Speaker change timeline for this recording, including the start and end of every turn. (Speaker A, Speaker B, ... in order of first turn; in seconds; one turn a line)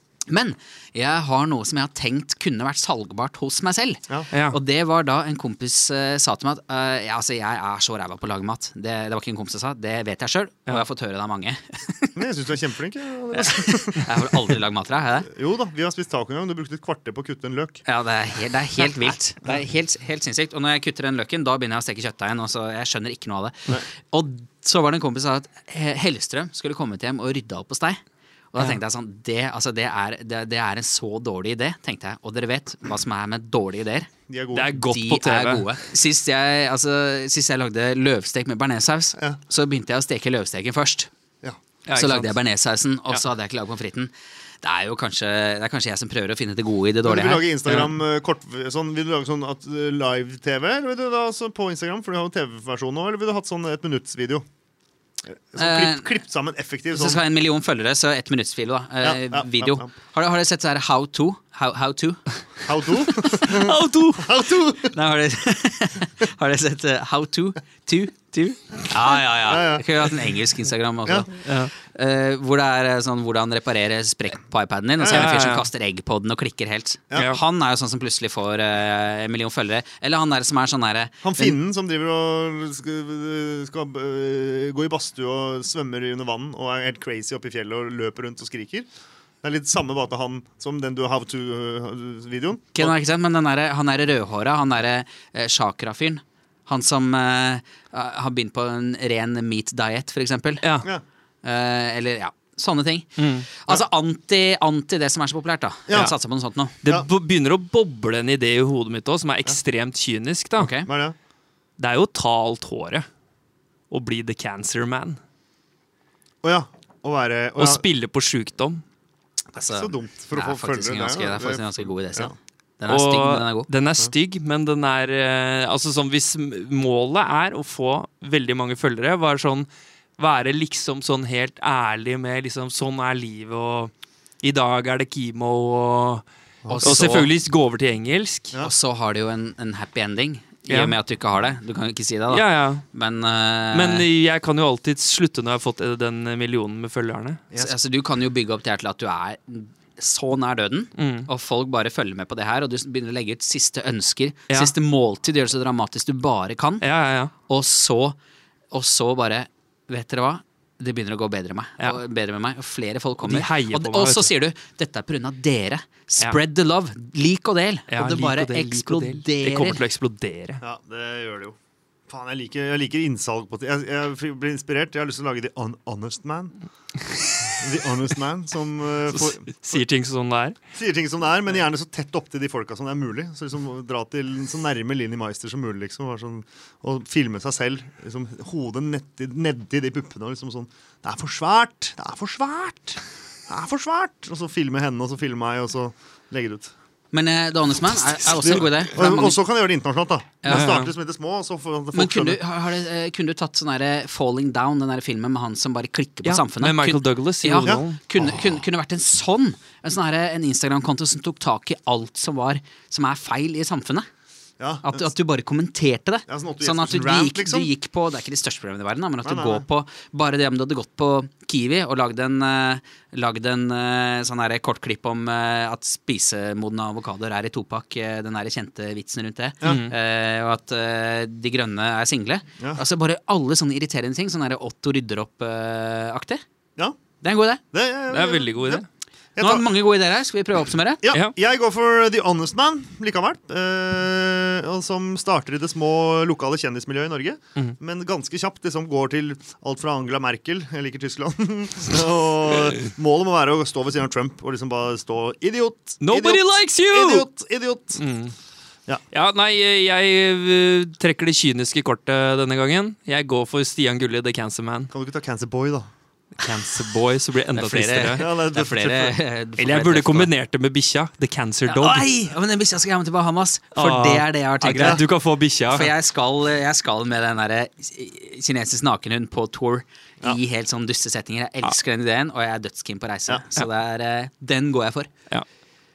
Speaker A: 0.3-12.2
Speaker B: 4.3-4.6
Speaker C: 12.2-14.5
Speaker A: 13.3-15.3
Speaker C: 15.3-17.8
Speaker A: 17.9-28.0
Speaker A: 28.5-34.1
Speaker C: 34.3-34.8
Speaker B: 34.5-35.7
Speaker A: 34.8-41.1
Speaker B: 41.9-42.4
Speaker A: 41.9-47.5
Speaker C: 47.0-54.5
Speaker B: 47.7-47.9
Speaker C: 55.3-57.2
Speaker A: 55.6-56.1
Speaker A: 56.9-62.2
Speaker C: 59.0-59.9
Speaker C: 62.7-65.0
Speaker B: 63.1-64.3
Speaker A: 64.8-81.6
Speaker C: 69.1-69.8
Speaker B: 71.4-71.7
Speaker C: 75.0-75.4
Speaker B: 75.1-75.7
Speaker B: 77.1-77.4
Speaker C: 81.2-88.9
Speaker C: 89.4-93.0
Speaker A: 92.8-100.6
Speaker B: 100.6-100.9
Speaker A: 101.4-106.8
Speaker B: 103.2-103.5
Speaker C: 105.9-106.1
Speaker B: 106.8-110.7
Speaker A: 110.6-110.9
Speaker C: 110.8-111.2
Speaker B: 111.8-113.0
Speaker B: 113.9-115.2
Speaker C: 116.4-117.8
Speaker B: 117.6-118.8
Speaker A: 119.5-123.7
Speaker C: 119.6-122.3
Speaker B: 122.9-136.2
Speaker C: 136.6-137.2
Speaker A: 136.7-137.3
Speaker B: 136.8-138.5
Speaker A: 138.6-144.1
Speaker B: 140.7-140.9
Speaker B: 142.3-142.8
Speaker B: 143.7-147.4
Speaker A: 147.6-156.9
Speaker B: 151.0-151.3
Speaker B: 156.8-157.3
Speaker A: 157.5-158.2
Speaker A: 158.7-169.8
Speaker B: 163.2-164.3
Speaker B: 167.9-170.6
Speaker C: 170.6-171.6
Speaker C: 172.1-176.6
Speaker C: 177.6-179.8
Speaker B: 179.1-180.6
Speaker C: 180.8-196.7
Speaker A: 197.1-199.4
Speaker C: 198.4-202.4
Speaker A: 200.4-200.8
Speaker B: 200.5-200.9
Speaker A: 201.9-214.1
Speaker B: 206.2-208.0
Speaker C: 207.6-208.3
Speaker C: 214.6-215.1
Speaker A: 214.8-236.4
Speaker C: 216.3-217.7
Speaker C: 219.2-219.7
Speaker B: 229.6-229.9
Speaker A: 237.2-237.6
Speaker C: 237.7-238.8
Speaker B: 238.1-238.9
Speaker C: 239.4-239.7
Speaker A: 239.4-241.0
Speaker C: 241.0-258.0
Speaker B: 256.0-257.3
Speaker B: 257.9-258.3
Speaker B: 259.1-264.9
Speaker C: 264.9-265.9
Speaker B: 266.4-268.3
Speaker A: 267.5-270.3
Speaker C: 268.2-269.2
Speaker B: 269.6-272.1
Speaker A: 271.7-275.1
Speaker B: 273.8-275.9
Speaker A: 275.7-285.1